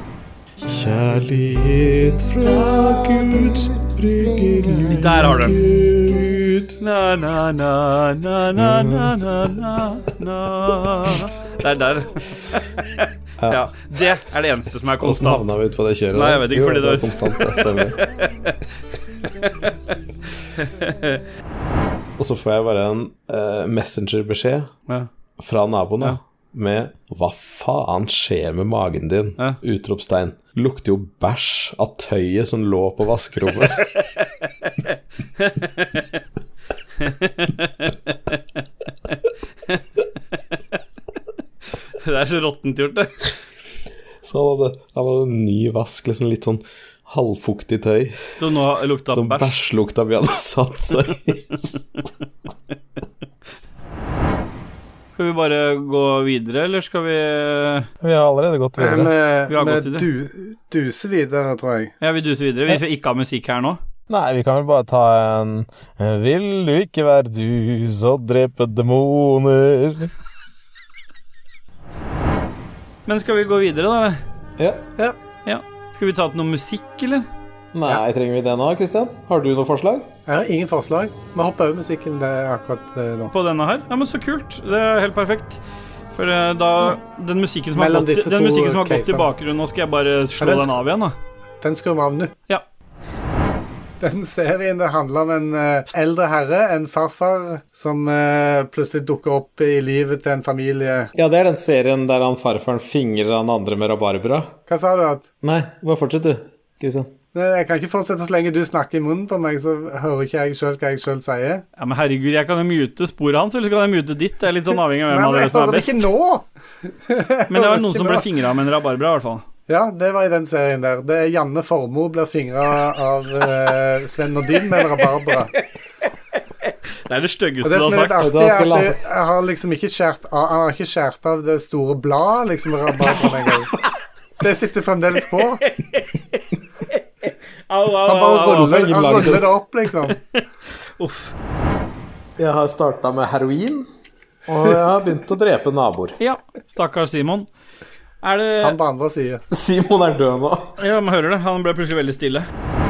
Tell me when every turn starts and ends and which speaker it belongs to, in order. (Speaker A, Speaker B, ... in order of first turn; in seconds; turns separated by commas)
Speaker A: 0.7-6.8, Speaker B: 4.9-5.6, Speaker B: 6.8-12.6, Speaker A: 8.7-9.1, Speaker A: 13.4-13.7, Speaker B: 13.5-15.5, Speaker A: 15.0-18.0, Speaker B: 16.1-17.1, Speaker B: 20.6-21.2, Speaker A: 22.2-24.7, Speaker A: 25.4-33.9, Speaker B: 35.4-36.0, Speaker B: 37.0-37.9, Speaker B: 42.0-43.2, Speaker A: 44.2-48.2, Speaker B: 48.4-49.6, Speaker A: 49.1-51.7, Speaker B: 55.1-57.9, Speaker A: 58.0-59.1, Speaker C: 58.8-61.9, Speaker B: 59.5-60.1, Speaker B: 62.0-63.8, Speaker A: 64.1-70.1, Speaker B: 73.1-74.2, Speaker A: 74.6-74.8, Speaker B: 75.5-77.3, Speaker A: 77.7-80.1, Speaker C: 80.3-83.3, Speaker B: 83.3-85.6, Speaker B: 86.1-91.2, Speaker C: 87.7-89.3, Speaker C: 90.4-90.8, Speaker C: 91.6-92.3, Speaker C: 94.0-101.1, Speaker A: 101.2-104.5, Speaker C: 104.7-105.3, Speaker A: 105.4-107.1, Speaker C: 107.3-111.6, Speaker B: 111.8-116.1, Speaker C: 115.1-118.2, Speaker B: 117.5-119.5, Speaker C: 119.7-125.5, Speaker B: 127.1-128.2, Speaker C: 127.6-133.7, Speaker A: 128.2-129.0, Speaker C: 134.4-135.6, Speaker B: 135.7-138.8, Speaker C: 138.0-140.2, Speaker A: 138.7-139.5, Speaker B: 140.1-140.4, Speaker B: 141.0-141.3, Speaker A: 142.4-143.9, Speaker A: 144.5-146.2, Speaker B: 146.2-147.5, Speaker B: 148.2-148.8, Speaker C: 148.6-149.4, Speaker A: 149.5-150.8, Speaker B: 150.8-152.5